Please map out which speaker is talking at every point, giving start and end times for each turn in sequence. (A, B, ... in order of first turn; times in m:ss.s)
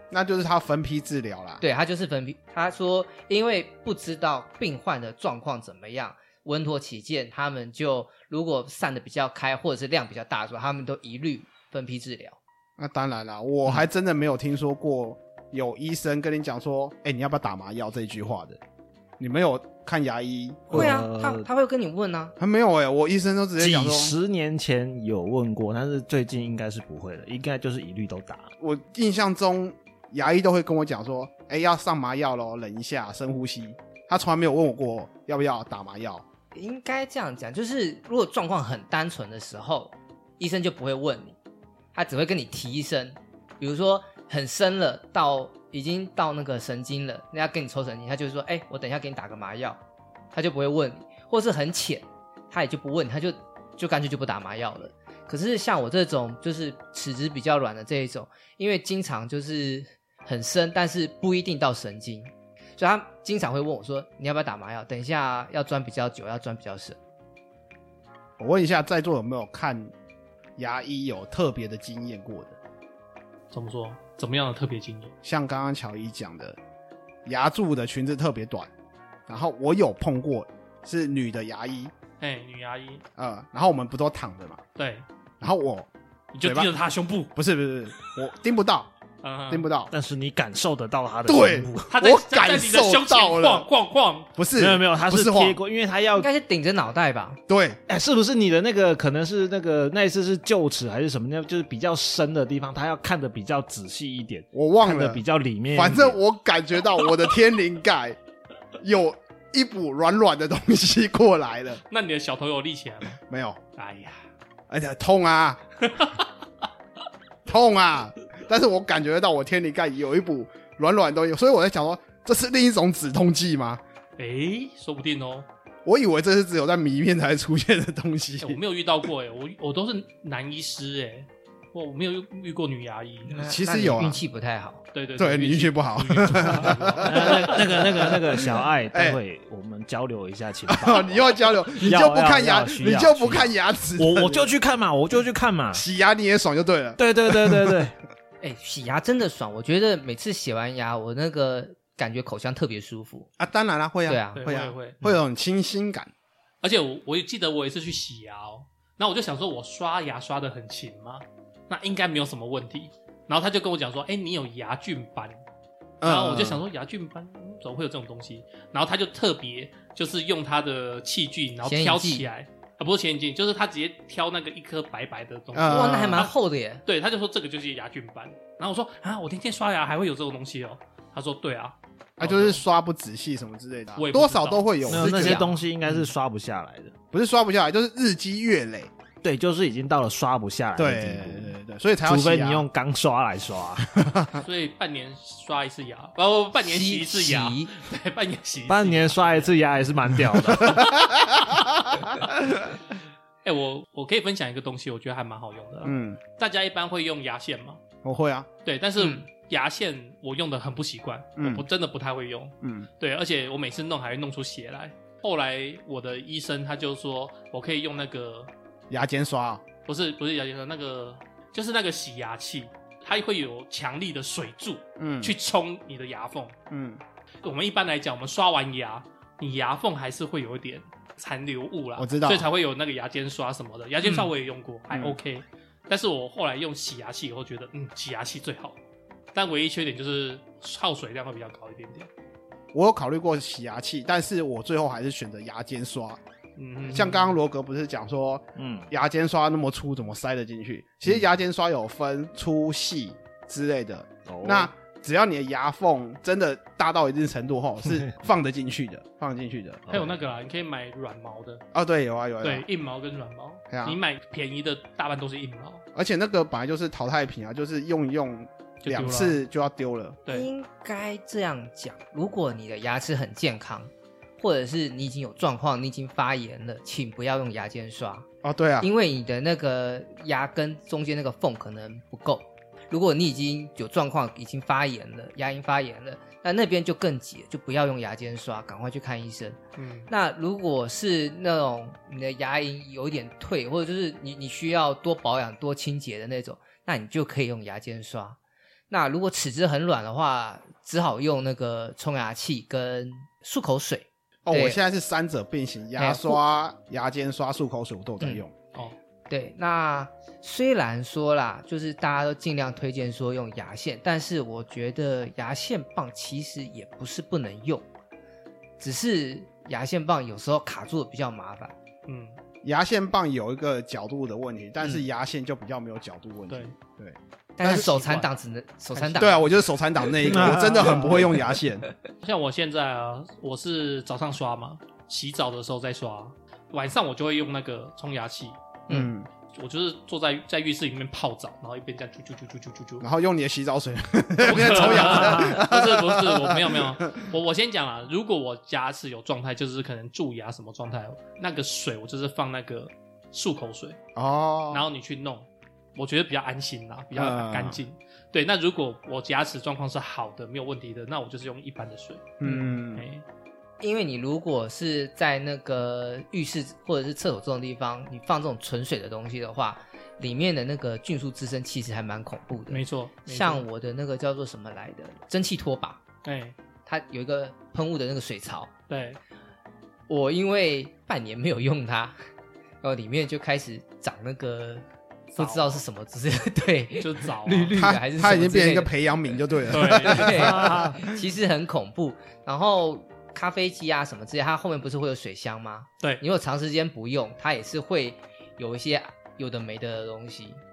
0:00.1-0:01.6 A
0:01.6-0:12.4 B
0:12.8-0:18.6 A
0:19.2-0:20.9 A
0:20.7-0:21.4 C
0:20.7-0:22.3 B
0:22.4-0:24.1 A
0:23.6-0:28.5 C
0:28.6-0:36.2 A
0:36.5-0:41.4 B
0:41.9-0:49.8 B
0:50.3-1:07.0 B
1:08.4-1:09.9 A
1:10.6-1:12.6 A
1:13.5-1:15.1 D
1:15.2-1:16.6 A
1:17.2-1:18.7 A
1:19.3-1:21.9 A
1:22.2-1:23.0 D
1:23.2-1:24.6 A
1:24.8-1:25.0 D
1:25.4-1:25.9 A
1:26.3-1:27.3 D
1:26.4-1:26.7 A
1:27.3-1:28.9 A
1:29.2-1:29.7 D
1:29.5-1:29.9 A
1:29.9-1:31.9 C
1:31.3-1:33.7 A
1:31.9-1:34.3 D
1:34.4-1:35.6 A
1:34.6-1:36.3 C
1:36.2-1:37.4 B
1:37.5-1:37.8 A
1:37.9-1:46.2 C
1:44.5-1:48.2 A
1:48.8-1:51.8 A
1:51.9-1:53.2 D
1:53.2-1:53.6 A
1:53.8-1:54.2 D
1:54.7-1:55.6 A
1:55.8-1:56.2 D
1:57.4-2:03.8 A
2:04.2-2:05.5 D
2:05.8-2:08.6 A
2:08.4-2:13.4 D
2:13.3-2:14.8 B
2:13.4-2:14.2 A
2:14.9-2:18.0 D
2:15.2-2:19.2 A
2:17.0-2:25.8 C
2:20.7-2:24.5 A
2:25.7-2:27.8 A
2:27.0-2:27.9 C
2:28.4-2:33.3 B
2:33.4-2:36.1 A
2:34.1-2:34.4 B
2:34.4-2:35.0 D
2:36.6-2:45.4 D
2:46.0-2:46.6 A
2:46.0-2:56.3 D
2:51.6-2:52.3 B
2:55.5-2:56.3 A
2:55.7-2:56.8 B
2:56.8-3:02.6 D
3:02.2-3:05.4 A
3:04.0-3:04.8 D
3:04.9-3:06.9 C
3:04.9-3:05.6 B
3:07.1-3:08.9 A
3:09.2-3:13.9 C
3:10.8-3:12.7 A
3:14.0-3:14.4 A
3:14.4-3:19.5 D
3:16.6-3:17.7 B
3:18.7-3:20.8 C
3:20.6-3:22.5 A
3:23.4-3:27.8 D
3:25.8-3:26.2 A
3:28.0-3:28.5 A
3:28.6-3:38.5 D
3:29.0-3:29.2 B
3:31.4-3:31.6 A
3:32.6-3:32.9 A
3:38.9-3:39.6 A
3:39.8-3:46.6 D
3:45.0-3:45.3 A
3:46.7-3:47.0 A
3:47.4-3:58.8 D
3:52.0-3:52.5 A
3:54.0-3:54.3 B
3:54.9-3:55.2 A
3:59.3-4:02.1 D
4:02.7-4:06.2 A
4:06.6-4:07.4 D
4:06.8-4:19.8 A
4:08.6-4:08.9 C
4:14.2-4:14.7 C
4:19.9-4:20.2 C
4:19.9-4:21.6 D
4:21.7-4:22.6 A
4:22.4-4:25.8 D
4:23.7-4:24.0 A
4:25.9-4:30.2 A
4:28.8-4:29.4 D
4:30.3-4:38.3 B
4:38.4-4:38.9 A
4:38.8-4:58.4 B
4:49.8-4:50.1 D
4:58.9-5:04.8 B
5:04.4-5:08.5 A
5:06.0-5:06.4 B
5:09.3-5:17.8 B
5:18.8-5:21.7 B
5:22.1-5:22.4 D
5:22.6-5:27.9 A
5:27.6-5:29.4 B
5:27.6-5:28.3 D
5:28.9-5:29.3 D
5:29.2-5:31.8 A
5:30.4-5:30.8 C
5:30.4-5:31.1 D
5:32.2-5:38.6 D
5:38.9-5:39.3 A
5:39.5-5:43.0 D
5:43.0-5:47.2 A
5:44.4-5:54.0 D
5:44.7-5:45.6 C
5:54.2-5:54.9 A
5:54.7-6:03.2 D
5:57.1-5:57.8 A
6:02.4-6:03.0 A
6:03.8-6:16.0 B
6:12.7-6:13.6 D
6:16.2-6:16.5 D
6:16.8-6:18.7 B
6:18.9-6:19.2 D
6:20.1-6:22.2 B
6:22.8-6:29.1 B
6:25.3-6:25.8 D
6:27.0-6:27.7 D
6:27.7-6:31.0 A
6:29.7-6:30.7 D
6:29.7-6:40.6 B
6:30.5-6:31.0 C